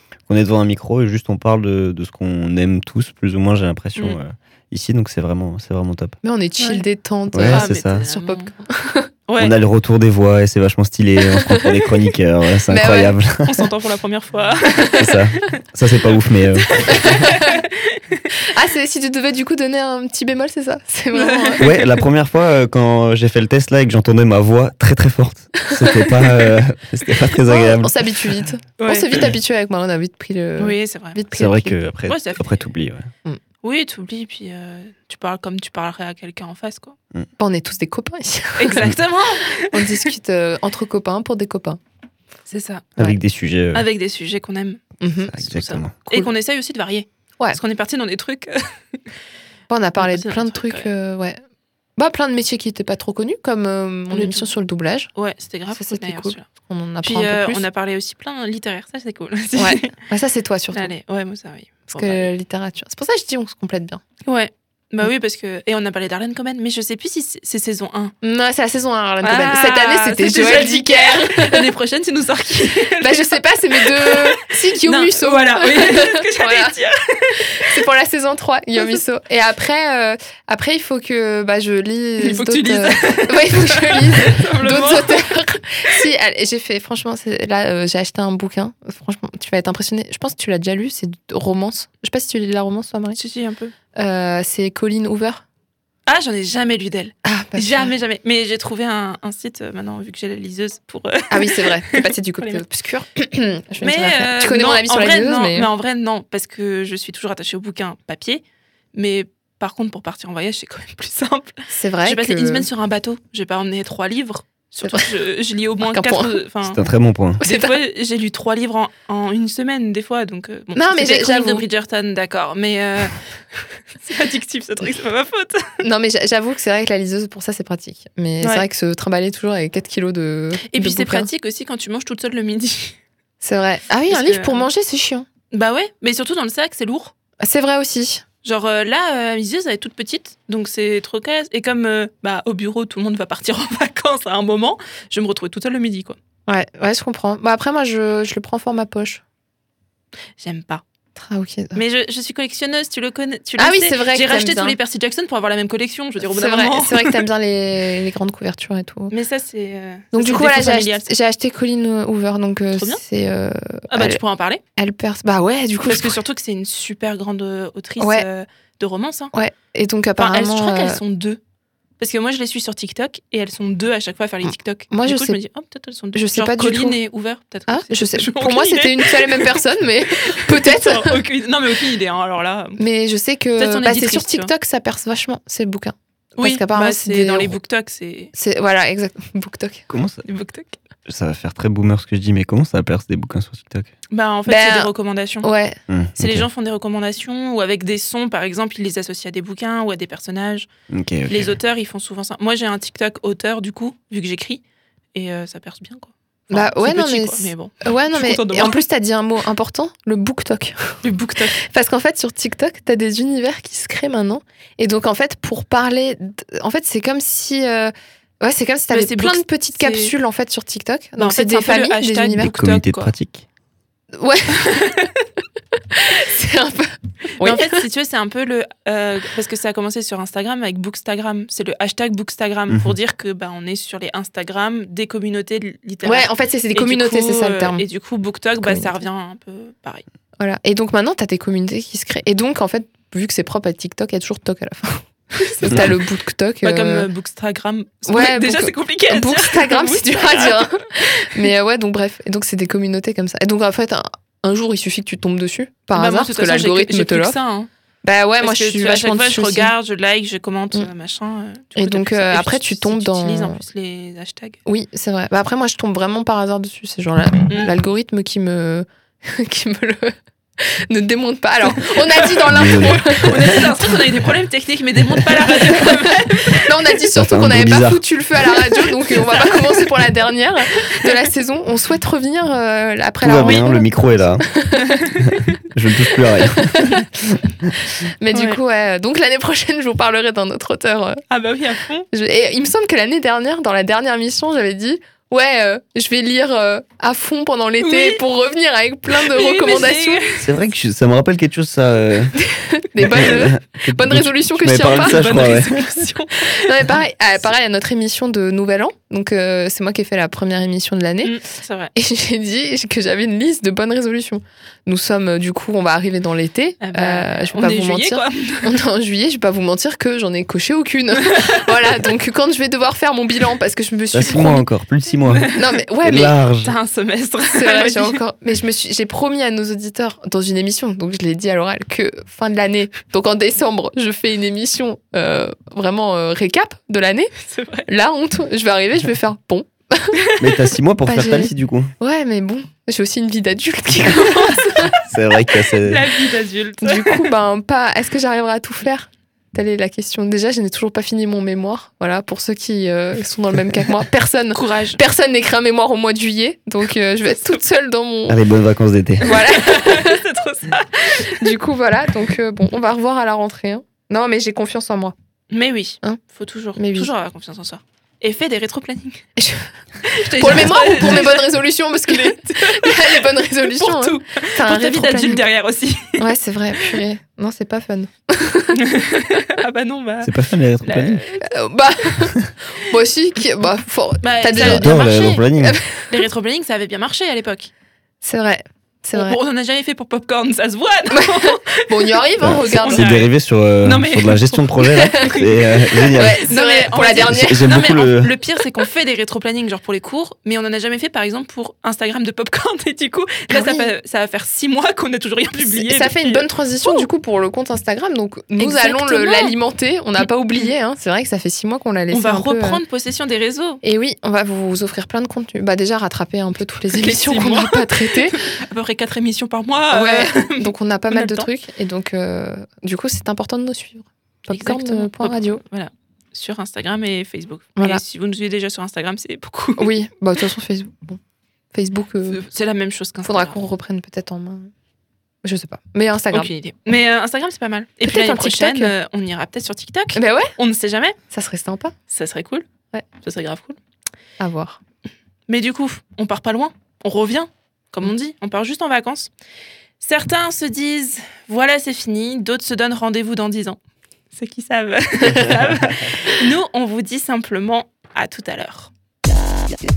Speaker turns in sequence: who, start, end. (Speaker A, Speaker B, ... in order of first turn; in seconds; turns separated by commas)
Speaker A: 0.3-6.2, Speaker B: 6.2-9.1, Speaker A: 7.3-8.0, Speaker C: 7.5-8.5, Speaker C: 9.3-9.5, Speaker A: 9.4-13.7, Speaker B: 12.7-13.2, Speaker C: 13.4-15.0, Speaker B: 14.8-15.2, Speaker A: 15.0-17.1, Speaker C: 16.6-18.2, Speaker B: 16.9-17.5, Speaker B: 18.5-21.7, Speaker C: 21.1-21.9, Speaker A: 21.6-28.4, Speaker B: 25.7-26.0, Speaker B: 27.5-31.9, Speaker C: 28.8-29.2, Speaker C: 30.6-31.2, Speaker A: 31.3-33.1, Speaker C: 32.1-32.5, Speaker C: 33.6-37.0, Speaker B: 37.4-38.9, Speaker C: 38.6-40.0, Speaker B: 39.7-41.8, Speaker C: 42.5-43.1, Speaker A: 43.0-43.9, Speaker C: 43.7-44.8, Speaker B: 45.0-45.4, Speaker A: 45.3-45.9, Speaker C: 45.3-49.0, Speaker B: 49.7-51.4, Speaker C: 50.0-50.9, Speaker B: 52.0-55.1, Speaker C: 54.1-54.5, Speaker C: 55.1-56.5, Speaker B: 55.7-57.6, Speaker C: 57.0-59.9, Speaker B: 59.5-60.9, Speaker C: 60.7-62.3, Speaker B: 61.9-64.0, Speaker C: 64.2-68.1, Speaker B: 68.2-71.7, Speaker C: 69.2-77.8, Speaker B: 73.0-76.8, Speaker B: 77.5-93.2, Speaker C: 82.2-85.3, Speaker C: 93.2-93.7, Speaker B: 94.0-95.4, Speaker C: 96.0-102.6, Speaker B: 97.2-97.9, Speaker B: 101.3-105.7, Speaker C: 103.8-108.4, Speaker C: 108.9-116.8, Speaker B: 111.7-112.7, Speaker B: 114.8-115.1, Speaker B: 115.8-116.4, Speaker A: 116.6-117.4, Speaker B: 117.4-117.8, Speaker C: 117.4-125.6, Speaker B: 120.7-121.7, Speaker B: 125.8-131.3, Speaker C: 128.4-128.7, Speaker C: 130.6-132.9, Speaker B: 133.4-135.2, Speaker C: 134.1-134.7, Speaker C: 135.5-137.1, Speaker B: 137.4-138.2, Speaker C: 138.4-146.2, Speaker B: 146.5-149.2, Speaker C: 150.4-150.8, Speaker B: 151.2-151.8, Speaker C: 151.7-157.2, Speaker B: 153.6-154.8, Speaker B: 156.2-159.1, Speaker C: 159.1-161.1, Speaker B: 160.1-164.2, Speaker C: 162.7-163.0, Speaker C: 163.9-164.6, Speaker B: 164.8-166.2, Speaker C: 165.8-169.3, Speaker B: 168.0-168.3, Speaker B: 169.3-171.0, Speaker C: 170.2-171.4, Speaker C: 172.0-179.6, Speaker B: 174.9-175.4, Speaker B: 176.1-177.0, Speaker B: 177.7-181.2, Speaker C: 180.2-182.8, Speaker B: 182.8-187.6, Speaker C: 183.6-184.5, Speaker C: 186.4-188.3, Speaker B: 188.3-189.8, Speaker A: 189.9-190.2, Speaker C: 190.2-190.8, Speaker A: 191.1-193.9, Speaker C: 194.1-195.5, Speaker B: 194.4-194.9, Speaker B: 195.4-195.8, Speaker A: 195.9-196.5, Speaker C: 196.2-200.7, Speaker A: 200.9-201.6, Speaker C: 201.3-204.6, Speaker C: 205.1-208.8, Speaker B: 206.5-211.0, Speaker C: 211.0-211.6, Speaker B: 211.6-222.5, Speaker C: 218.9-220.1, Speaker C: 221.2-223.1, Speaker A: 222.3-223.4, Speaker B: 224.2-225.0, Speaker B: 225.9-227.9, Speaker C: 227.4-240.0, Speaker A: 232.7-232.9, Speaker B: 236.0-237.8, Speaker B: 238.6-239.0, Speaker B: 240.4-247.1, Speaker C: 245.3-246.0, Speaker C: 246.6-250.7, Speaker B: 248.1-257.4, Speaker C: 255.9-257.7, Speaker B: 258.0-259.7, Speaker C: 258.4-264.6, Speaker B: 261.8-263.6, Speaker B: 264.6-273.8, Speaker C: 271.6-272.4, Speaker A: 272.5-273.5, Speaker C: 273.1-276.9, Speaker B: 276.6-285.0, Speaker A: 277.1-278.1, Speaker C: 279.1-279.8, Speaker A: 283.2-284.4, Speaker C: 284.8-285.5, Speaker A: 285.2-287.4, Speaker B: 286.4-287.1, Speaker B: 288.2-291.2, Speaker C: 288.3-288.6, Speaker C: 291.3-292.1, Speaker B: 292.1-300.3, Speaker C: 297.8-298.2, Speaker C: 299.1-300.5, Speaker A: 300.4-302.4, Speaker B: 302.3-305.5, Speaker A: 302.9-305.8, Speaker C: 304.9-306.7, Speaker B: 306.4-311.3, Speaker C: 311.2-311.9, Speaker B: 311.9-324.6, Speaker C: 316.8-318.7, Speaker A: 324.1-326.8, Speaker C: 325.3-325.8, Speaker B: 325.5-326.4, Speaker C: 326.6-328.2, Speaker B: 327.5-337.3, Speaker C: 337.4-337.9, Speaker B: 337.9-340.1, Speaker A: 340.4-341.9, Speaker B: 341.1-345.0, Speaker C: 344.1-344.9, Speaker A: 345.1-346.1, Speaker C: 345.8-347.3, Speaker B: 346.8-358.4, Speaker C: 354.5-355.0, Speaker C: 357.2-357.6, Speaker A: 358.3-359.2, Speaker B: 359.2-360.2, Speaker C: 359.2-361.5, Speaker B: 361.4-365.1, Speaker C: 365.5-369.2, Speaker B: 366.8-367.1, Speaker B: 369.4-369.7, Speaker C: 370.0-376.2, Speaker B: 370.4-375.4, Speaker B: 376.2-378.8, Speaker C: 378.7-381.5, Speaker A: 380.2-381.2, Speaker B: 381.4-386.3, Speaker C: 384.2-385.5, Speaker A: 384.5-385.8, Speaker C: 386.1-387.7, Speaker B: 388.2-389.4, Speaker C: 389.1-393.3, Speaker B: 391.1-393.0, Speaker A: 392.4-396.4, Speaker C: 393.8-407.1, Speaker B: 395.0-395.5, Speaker B: 396.1-397.7, Speaker A: 397.1-398.3, Speaker B: 403.5-403.9, Speaker B: 405.6-412.8, Speaker C: 408.6-409.6, Speaker C: 410.2-410.7, Speaker C: 412.1-413.8, Speaker B: 413.8-418.4, Speaker C: 416.9-421.5, Speaker B: 419.9-425.6, Speaker C: 424.5-429.9, Speaker B: 427.8-428.0, Speaker B: 429.8-431.2, Speaker B: 431.7-432.4, Speaker C: 432.3-433.6, Speaker B: 433.2-434.7, Speaker B: 435.4-436.5, Speaker C: 436.3-441.1, Speaker B: 438.0-438.9, Speaker B: 440.1-440.5, Speaker B: 441.3-441.9, Speaker C: 442.1-442.6, Speaker C: 443.2-443.8, Speaker B: 444.4-444.8, Speaker C: 445.5-449.3, Speaker C: 450.0-453.8, Speaker C: 454.3-458.9